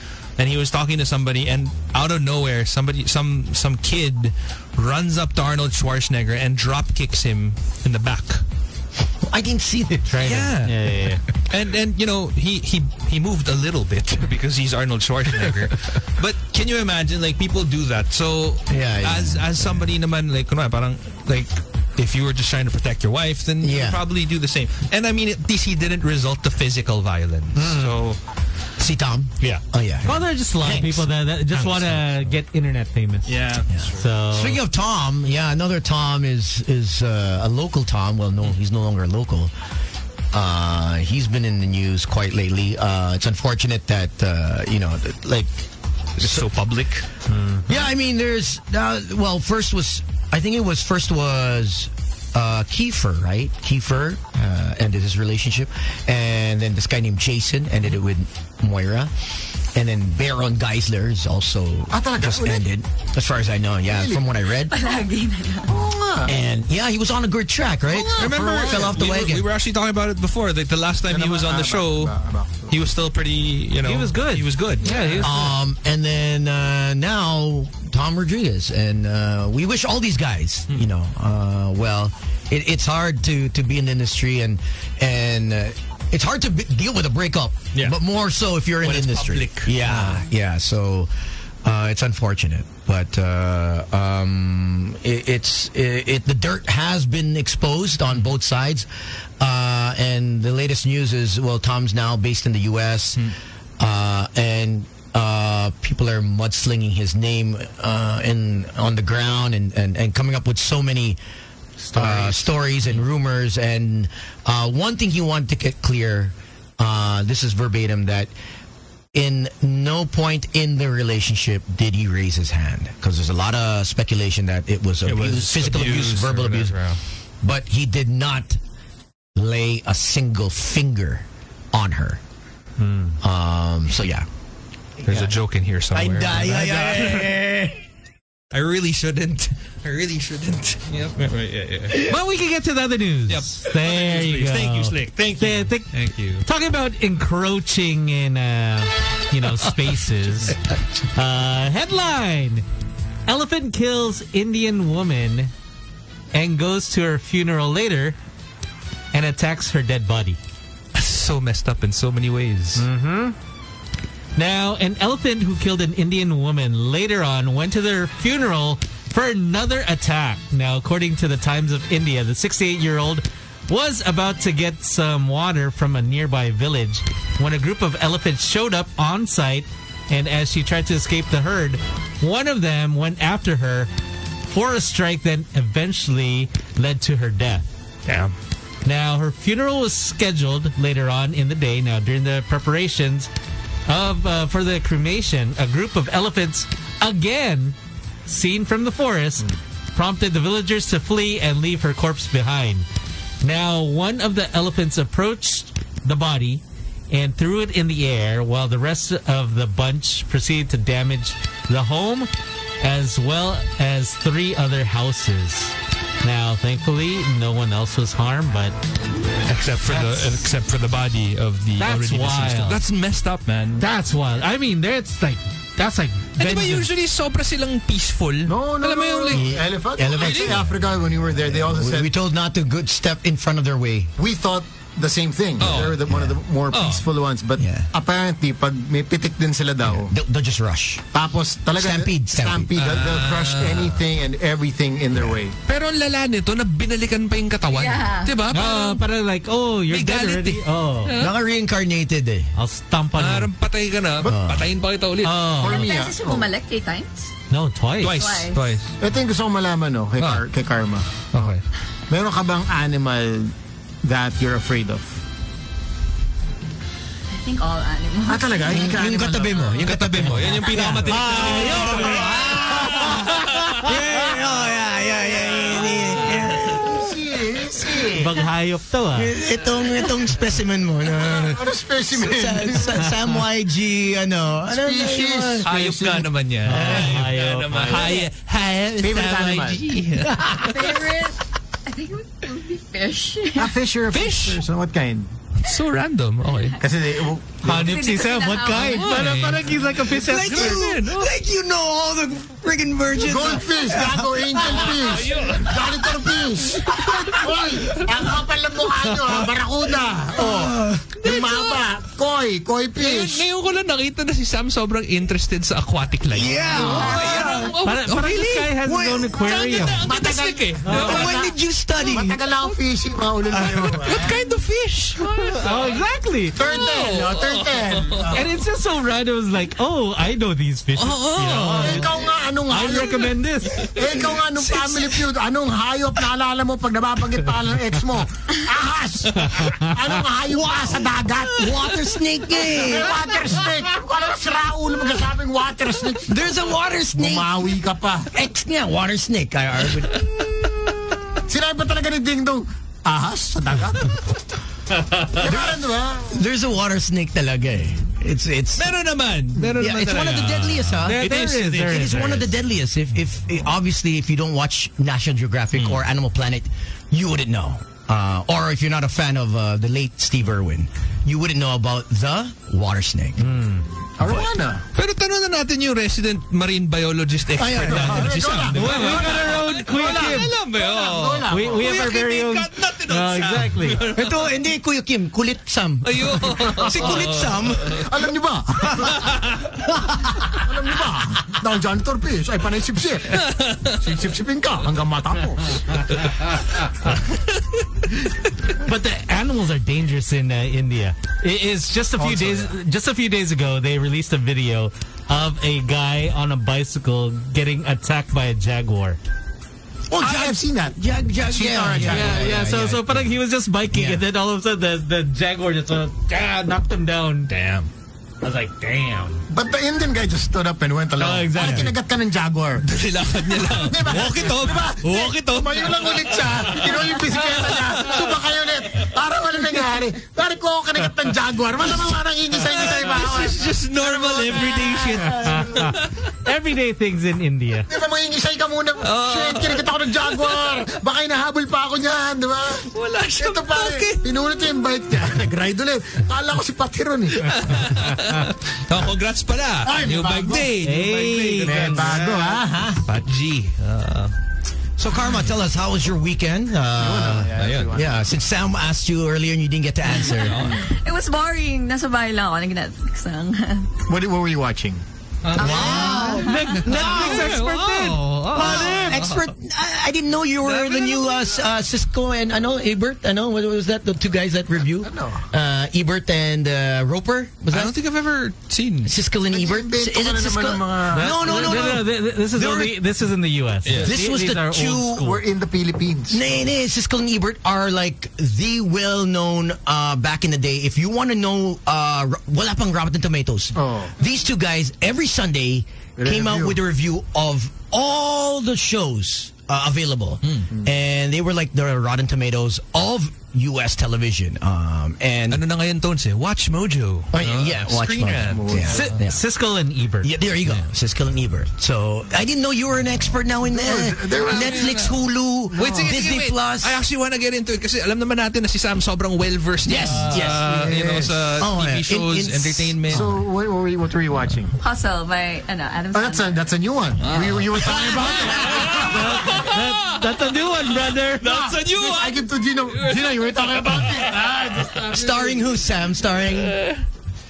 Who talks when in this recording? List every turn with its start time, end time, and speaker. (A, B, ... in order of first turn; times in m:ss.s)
0:00.4-0:08.4 A
0:09.2-0:10.2 B
0:10.1-0:11.2 C
0:10.2-0:28.2 A
0:18.7-0:19.9 B
0:23.6-0:24.0 B
0:27.6-0:28.0 C
0:28.8-0:32.0 B
0:30.0-0:33.4 C
0:33.3-0:34.1 A
0:33.7-0:39.5 B
0:34.0-0:34.6 C
0:40.3-0:45.7 B
0:46.2-0:46.5 B
0:46.2-0:47.1 A
0:47.3-0:47.7 C
0:47.7-0:59.1 B
0:59.7-1:04.8 B
1:01.9-1:02.7 D
1:03.9-1:04.3 D
1:04.7-1:05.7 E
1:05.7-1:06.3 D
1:06.2-1:09.5 B
1:07.9-1:09.0 D
1:08.2-1:12.1 A
1:11.1-1:12.8 D
1:12.7-1:15.3 A
1:13.8-1:15.5 C
1:15.2-1:31.1 B
1:28.8-1:30.2 A
1:31.6-1:38.9 B
1:39.4-1:51.2 B
1:51.8-1:52.5 C
1:51.9-1:58.3 B
1:59.1-2:06.8 B
2:05.0-2:07.0 A
2:07.4-2:08.6 B
2:09.4-2:12.2 B
2:12.8-2:13.2 C
2:13.2-2:14.3 B
2:15.0-2:15.3 B
2:15.0-2:17.4 A
2:15.9-2:17.8 B
2:18.5-2:22.1 A
2:21.9-2:25.9 C
2:23.3-2:26.5 A
2:26.4-2:30.6 C
2:31.1-2:32.6 C
2:33.3-2:35.5 C
2:36.3-2:38.2 C
2:39.1-2:40.4 C
2:41.0-2:42.9 A
2:42.8-2:43.4 C
2:44.4-3:03.9 C
3:04.5-3:07.7 C
3:08.1-3:08.3 A
3:08.8-3:13.3 C
3:13.9-3:22.9 C
3:23.4-3:32.3 C
3:32.8-3:38.8 C
3:39.5-3:43.8 A
3:39.8-3:40.4 C
3:41.8-3:42.8 C
3:43.8-3:46.9 C
3:46.4-3:49.6 A
3:48.5-3:52.1 D
3:49.3-3:54.1 B
3:50.2-3:50.6 A
3:54.2-4:00.1 D
3:55.6-3:56.0 A
3:56.0-3:56.4 B
3:56.7-3:57.1 A
3:57.6-3:57.9 B
3:59.8-4:01.1 B
4:01.1-4:05.6 D
4:01.8-4:02.7 B
4:02.8-4:04.0 A
4:05.7-4:09.0 A
4:07.7-4:08.4 E
4:08.5-4:11.1 C
4:09.9-4:11.4 A
4:11.2-4:12.5 B
4:12.6-4:13.5 C
4:13.2-4:15.6 A
4:14.2-4:14.7 B
4:15.2-4:15.9 C
4:15.6-4:16.5 D
4:15.6-4:17.3 E
4:17.5-4:18.3 C
4:18.0-4:18.9 A
4:18.2-4:18.8 E
4:19.0-4:21.5 D
4:20.2-4:20.4 A
4:21.3-4:21.6 A
4:22.1-4:25.2 D
4:27.3-4:28.9 E
4:28.2-4:29.8 D
4:28.7-4:37.1 B
4:29.8-4:33.9 A
4:30.7-4:32.2 C
4:31.2-4:33.1 D
4:36.6-4:38.4 D
4:38.1-4:39.4 C
4:39.1-4:45.7 B
4:41.2-4:43.1 D
4:44.7-4:46.3 D
4:45.6-4:50.9 A
4:46.6-4:48.2 C
4:46.7-4:47.3 B
4:47.9-4:48.3 E
4:49.0-4:49.9 D
4:50.6-4:53.8 E
4:53.6-4:55.3 D
4:54.1-4:54.6 A
4:55.6-4:56.8 A
4:56.8-4:58.1 D
4:57.6-5:00.8 C
4:57.8-4:59.4 E
4:58.7-5:01.4 A
5:00.0-5:05.3 B
5:03.2-5:13.4 D
5:04.7-5:06.0 A
5:05.8-5:07.6 B
5:10.4-5:11.3 B
5:11.2-5:11.8 A
5:13.0-5:18.8 A
5:16.3-5:17.8 B
5:16.8-5:17.7 E
5:17.8-5:20.1 C
5:18.8-5:19.8 B
5:19.3-5:21.5 A
5:20.0-5:24.4 D
5:20.9-5:21.2 C
5:20.9-5:22.5 B
5:23.5-5:24.1 B
5:24.0-5:25.9 A
5:25.4-5:26.6 C
5:26.6-5:28.5 D
5:26.6-5:28.4 A
5:28.3-5:32.1 C
5:31.0-5:32.1 A
5:31.8-5:41.8 D
5:32.7-5:33.9 C
5:34.0-5:35.3 B
5:39.6-5:39.9 C
5:40.5-5:43.2 B
5:42.7-5:46.4 D
5:46.3-5:47.7 B
5:47.1-5:48.3 D
5:48.3-5:50.3 B
5:51.5-5:54.2 D
5:55.3-5:56.4 D
5:56.3-5:59.0 B
5:58.8-6:02.4 A
5:59.8-6:13.5 B
6:01.0-6:02.5 C
6:05.8-6:06.0 A
6:13.4-6:13.9 C
6:14.2-6:14.8 D
6:14.2-6:14.5 B
6:15.0-6:24.5 A
6:17.6-6:18.4 B
6:17.6-6:22.2 D
6:18.7-6:20.5 C
6:21.5-6:24.0 C
6:24.1-6:28.1 B
6:26.0-6:28.1 A
6:26.9-6:27.2 D
6:27.8-6:29.5 D
6:28.8-6:29.2 B
6:29.1-6:29.6 A
6:29.8-6:30.6 B
6:30.6-6:36.0 D
6:33.3-6:34.1 A
6:36.1-6:37.6 A
6:38.8-6:49.2 C
6:42.2-6:42.8 D
6:50.1-6:53.3 B
6:50.1-6:52.6 D
6:52.0-6:57.5 C
6:53.9-6:54.2 B
6:57.5-6:57.9 A
6:58.4-6:59.4 C
6:59.5-7:16.0 D
7:01.2-7:01.9 C
7:01.6-7:01.9 B
7:02.8-7:08.4 A
7:11.9-7:16.1 A
7:15.4-7:17.9 C
7:17.9-7:27.9 D
7:19.0-7:20.8 A
7:22.9-7:24.2 A
7:27.4-7:32.3 A
7:29.8-7:30.9 D
7:30.8-7:32.6 C
7:31.6-7:33.0 D
7:33.0-7:34.3 A
7:35.0-7:40.7 B
7:37.0-7:38.2 D
7:37.6-7:38.0 A
7:40.2-7:40.9 A
7:40.6-7:40.9 D
7:40.8-7:43.9 E
7:44.1-7:45.0 D
7:45.4-7:49.5 A
7:45.6-7:47.6 B
7:45.6-7:46.8 E
7:45.7-7:49.2 C
7:48.5-7:58.0 B
7:50.6-7:51.6 A
7:55.0-7:55.4 D
7:57.7-7:59.1 A
7:59.0-8:03.0 B
7:59.5-8:02.0 D
8:01.1-8:05.4 C
8:03.9-8:04.1 A
8:04.0-8:05.3 B
8:05.2-8:06.4 D
8:06.3-8:25.6 B
8:13.8-8:14.2 D
8:16.2-8:16.8 D
8:25.5-8:29.2 A
8:27.3-8:29.4 B
8:28.4-8:29.1 D
8:28.9-8:30.3 C
8:30.2-8:37.0 B
8:33.6-8:35.0 D
8:34.3-8:35.2 A
8:35.7-8:36.2 D
8:35.7-8:43.4 A
8:39.8-8:40.7 B
8:40.3-8:41.5 D
8:41.6-8:43.3 B
8:43.1-8:44.8 D
8:44.8-8:46.6 E
8:46.1-8:49.6 D
8:47.2-8:55.1 A
8:48.8-8:51.7 C
8:51.5-8:55.5 D
8:55.1-8:56.8 B
8:56.6-8:57.0 A